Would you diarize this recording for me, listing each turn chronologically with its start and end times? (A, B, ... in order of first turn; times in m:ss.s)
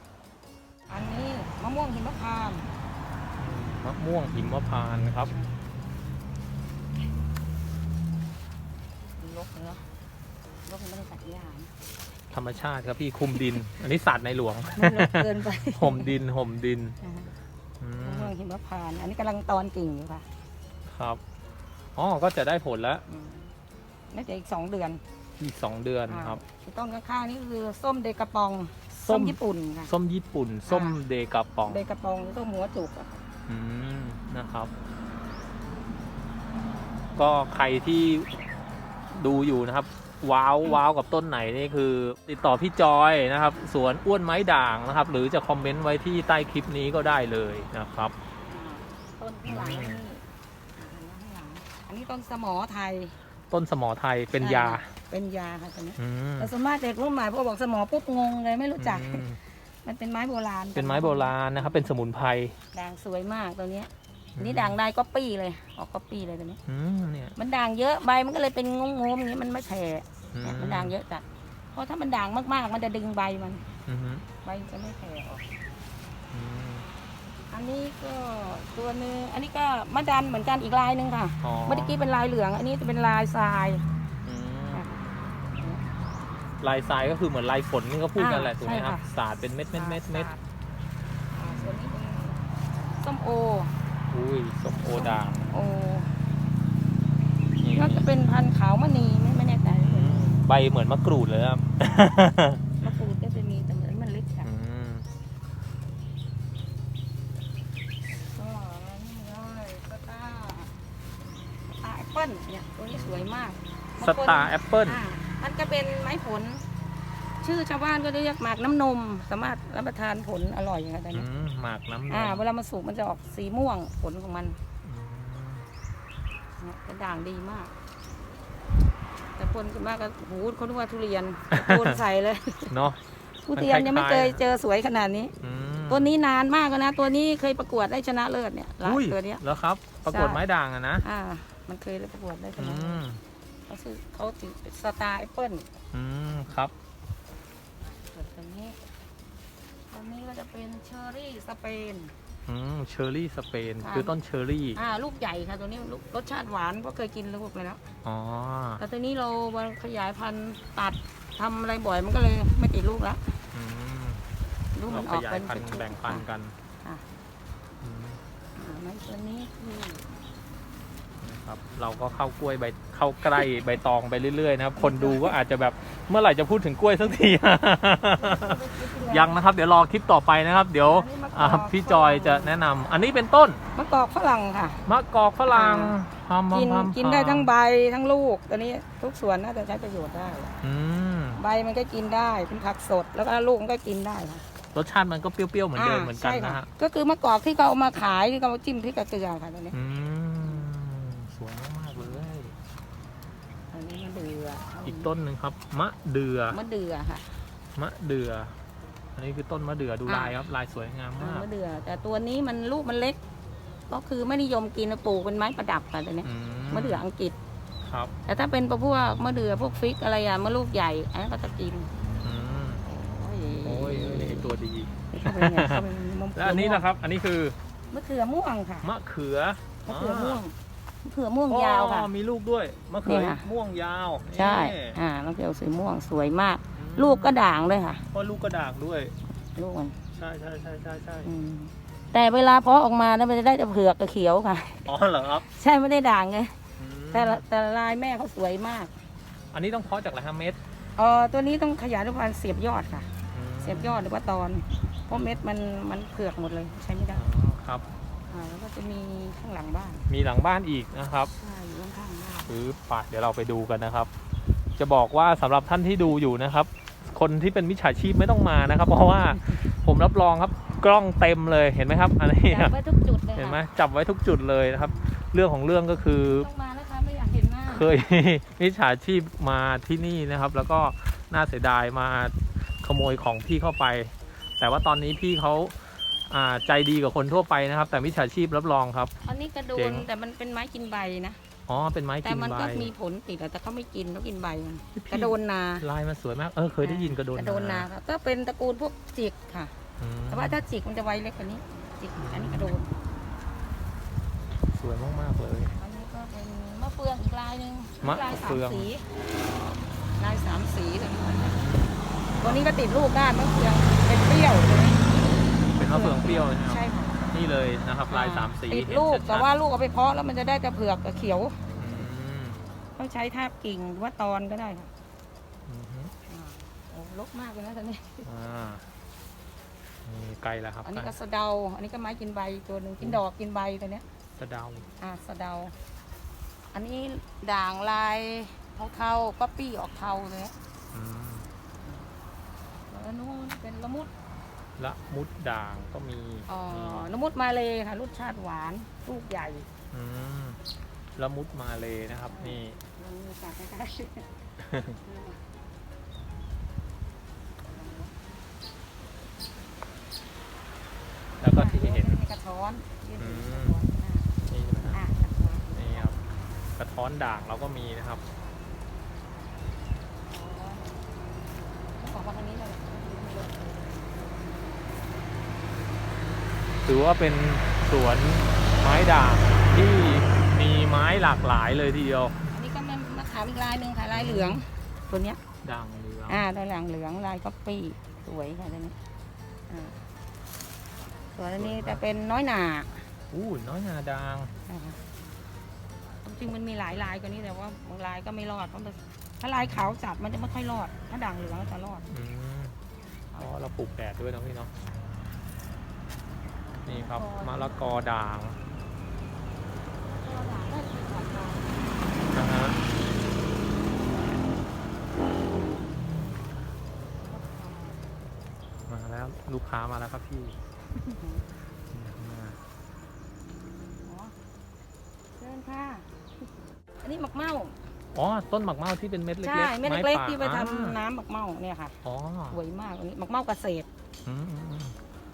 0:00.9-0:02.7 A
0:03.4-0:05.3 B
0:09.2-0:09.9 A
0:10.6-0:11.7 A
0:12.3-0:17.0 B
0:14.8-0:16.1 A
0:17.0-0:17.3 A
0:17.8-0:18.3 B
0:18.0-0:20.3 A
0:20.8-0:21.2 B
0:21.9-0:23.0 B
0:23.1-0:23.5 A
0:24.1-0:25.0 A
0:25.4-0:26.4 B
0:26.1-0:29.9 A
0:29.0-0:31.8 B
0:30.7-0:31.0 A
0:31.7-0:33.2 A
0:33.5-0:34.7 B
0:37.1-0:38.3 B
0:39.1-0:48.1 B
0:48.5-0:50.2 A
0:49.5-0:50.0 B
0:50.8-0:53.1 A
0:53.5-0:54.9 B
0:54.4-0:59.2 A
0:56.0-0:56.5 B
0:58.8-0:59.4 B
0:59.8-1:01.8 A
1:00.7-1:02.5 B
1:02.7-1:06.6 A
1:04.4-1:04.8 B
1:06.6-1:07.3 B
1:07.4-1:13.6 A
1:10.3-1:10.9 B
1:13.8-1:14.2 B
1:14.4-1:15.4 A
1:16.3-1:16.9 B
1:17.5-1:23.8 A
1:21.4-1:22.0 B
1:24.2-1:24.9 B
1:24.7-1:25.0 A
1:25.5-1:25.8 A
1:26.6-1:30.3 B
1:28.2-1:29.0 A
1:29.7-1:30.4 A
1:31.3-1:33.7 A
1:31.4-1:31.8 B
1:34.1-1:35.5 B
1:34.9-1:36.1 A
1:37.6-1:38.1 B
1:37.7-1:40.3 A
1:39.8-1:42.6 B
1:42.8-1:44.5 A
1:44.4-1:45.1 B
1:48.2-1:50.7 A
1:51.6-1:56.6 A
1:52.9-1:53.3 B
1:54.0-1:55.0 B
1:57.4-2:01.2 A
2:01.1-2:02.4 B
2:02.1-2:04.6 A
2:04.8-2:05.7 B
2:06.6-2:07.7 A
2:09.4-2:12.9 A
2:11.5-2:12.0 B
2:12.7-2:13.0 B
2:13.4-2:15.3 A
2:13.5-2:14.4 B
2:15.4-2:16.1 B
2:15.9-2:19.4 A
2:18.8-2:21.0 B
2:20.0-2:20.4 A
2:21.0-2:23.0 A
2:22.6-2:23.2 B
2:23.7-2:25.7 A
2:25.9-2:26.7 B
2:27.8-2:28.8 A
2:29.9-2:32.1 A
2:32.5-2:34.8 B
2:33.8-2:34.1 A
2:34.7-2:37.8 A
2:38.0-2:38.8 B
2:38.8-2:43.4 A
2:43.5-2:44.2 B
2:44.7-2:46.2 A
2:44.9-2:46.5 B
2:47.8-2:48.2 B
2:48.6-2:50.1 A
2:51.2-3:03.6 B
2:54.8-2:55.4 A
2:58.2-2:59.4 A
3:00.8-3:02.5 A
3:03.7-3:04.8 A
3:04.9-3:07.5 B
3:05.5-3:06.0 A
3:06.5-3:10.5 A
3:10.6-3:11.4 B
3:11.4-3:14.4 A
3:14.7-3:16.7 B
3:15.8-3:19.8 A
3:19.7-3:22.5 B
3:23.7-3:25.1 A
3:24.8-3:26.6 B
3:26.5-3:27.3 A
3:27.8-3:28.5 B
3:29.1-3:31.4 B
3:30.0-3:30.4 A
3:31.2-3:33.2 A
3:33.9-3:37.4 A
3:36.2-3:37.0 B
3:37.8-3:38.1 B
3:38.2-3:41.9 A
3:42.2-3:42.8 B
3:42.8-3:44.5 A
3:43.6-3:45.8 B
3:45.1-3:46.8 A
3:46.3-3:47.6 B
3:47.9-3:48.9 A
3:48.8-3:50.4 B
3:49.8-3:52.1 A
3:51.5-3:55.0 B
3:53.0-3:53.4 A
3:54.3-3:58.0 A
3:56.7-3:57.4 B
3:58.1-3:59.2 B
3:59.5-4:00.0 A
4:00.1-4:01.3 B
4:01.2-4:04.8 A
4:04.8-4:05.5 B
4:05.4-4:06.6 A
4:06.8-4:07.4 B
4:07.1-4:08.9 A
4:09.5-4:10.6 B
4:11.0-4:17.2 A
4:13.3-4:14.0 B
4:15.1-4:15.4 B
4:17.1-4:17.8 B
4:18.3-4:20.1 A
4:20.1-4:21.3 B
4:21.2-4:22.5 A
4:22.5-4:24.1 B
4:24.8-4:32.7 B
4:32.4-4:33.6 A
4:33.4-4:36.5 B
4:34.7-4:35.1 A
4:36.0-4:37.9 A
4:37.7-4:49.1 B
4:49.2-4:51.4 A
4:49.7-4:50.1 B
4:51.7-4:52.9 B
4:52.2-4:55.8 A
4:54.9-4:57.9 B
4:56.8-4:59.8 A
5:00.0-5:00.6 B
5:00.3-5:02.9 A
5:02.2-5:02.7 B
5:04.7-5:05.8 B
5:05.7-5:09.1 A
5:08.0-5:08.9 B
5:10.2-5:11.6 A
5:11.4-5:12.6 B
5:12.4-5:17.3 A
5:15.5-5:19.5 B
5:18.1-5:21.6 A
5:21.8-5:22.6 B
5:23.0-5:24.9 A
5:25.7-5:26.1 B
5:26.3-5:28.2 A
5:28.2-5:28.8 B
5:30.0-5:31.1 B
5:30.8-5:34.0 A
5:34.4-5:34.9 B
5:35.0-5:35.7 A
5:36.7-5:40.5 A
5:40.9-5:41.5 B
5:42.9-5:44.1 A
5:44.8-5:47.2 B
5:46.5-5:49.7 A
5:49.9-5:50.6 B
5:51.2-5:52.8 B
5:52.3-5:54.3 A
5:54.6-5:55.0 B
5:54.9-5:55.4 A
5:57.7-5:58.1 A
6:01.4-6:02.2 B
6:01.4-6:06.2 A
6:03.2-6:03.8 B
6:04.5-6:05.0 B
6:05.7-6:06.2 B
6:06.8-6:08.2 B
6:10.3-6:11.0 A
6:11.9-6:14.8 A
6:16.8-6:22.4 B
6:22.5-6:25.4 A
6:24.1-6:24.6 B
6:25.6-6:26.4 B
6:26.3-6:29.0 A
6:29.7-6:30.0 A
6:31.3-6:33.0 A
6:31.5-6:32.1 B
6:33.3-6:34.5 B
6:34.6-6:35.0 A
6:36.2-6:42.0 A
6:39.6-6:40.0 B
6:42.1-6:42.8 B
6:43.4-6:44.7 B
6:46.8-6:48.6 B
6:46.8-6:47.8 A
6:50.1-6:52.4 A
6:52.3-6:52.8 B
6:57.3-6:58.0 A
6:58.9-7:00.6 B
7:01.0-7:01.4 A
7:01.9-7:02.6 B
7:04.0-7:04.3 A
7:05.4-7:06.1 A
7:07.0-7:07.8 A
7:08.1-7:11.0 B
7:09.4-7:12.0 A
7:12.0-7:12.6 B
7:12.5-7:13.9 A
7:14.2-7:15.0 B